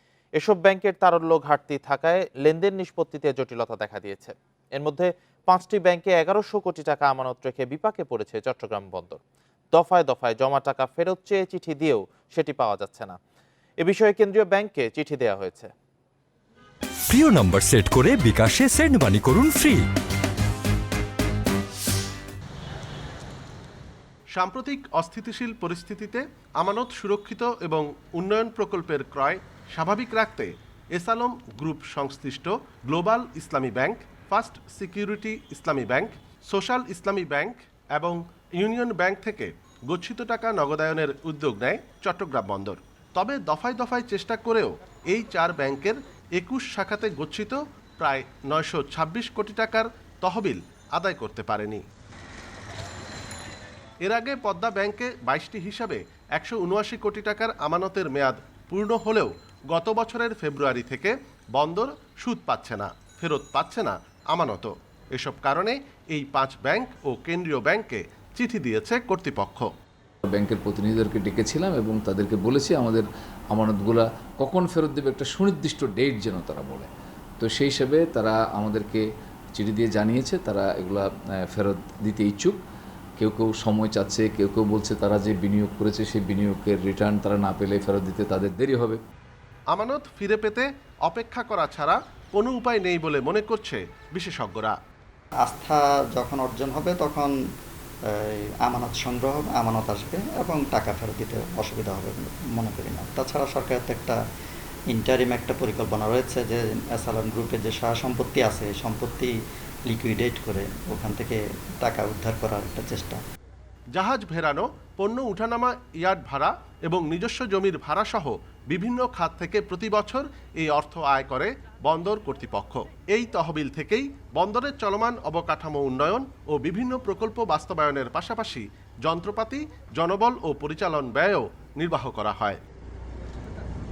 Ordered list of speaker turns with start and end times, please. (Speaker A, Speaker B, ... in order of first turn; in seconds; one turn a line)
Speaker A: 0.4-9.2
Speaker A: 9.7-13.2
Speaker A: 13.8-15.7
Speaker B: 17.1-19.8
Speaker C: 24.4-51.9
Speaker C: 54.0-69.7
Speaker D: 70.3-76.9
Speaker D: 77.4-79.0
Speaker D: 79.5-82.6
Speaker D: 83.2-89.0
Speaker C: 89.7-94.8
Speaker E: 95.4-97.3
Speaker E: 98.1-104.2
Speaker E: 104.9-109.3
Speaker E: 109.9-113.2
Speaker C: 114.0-132.6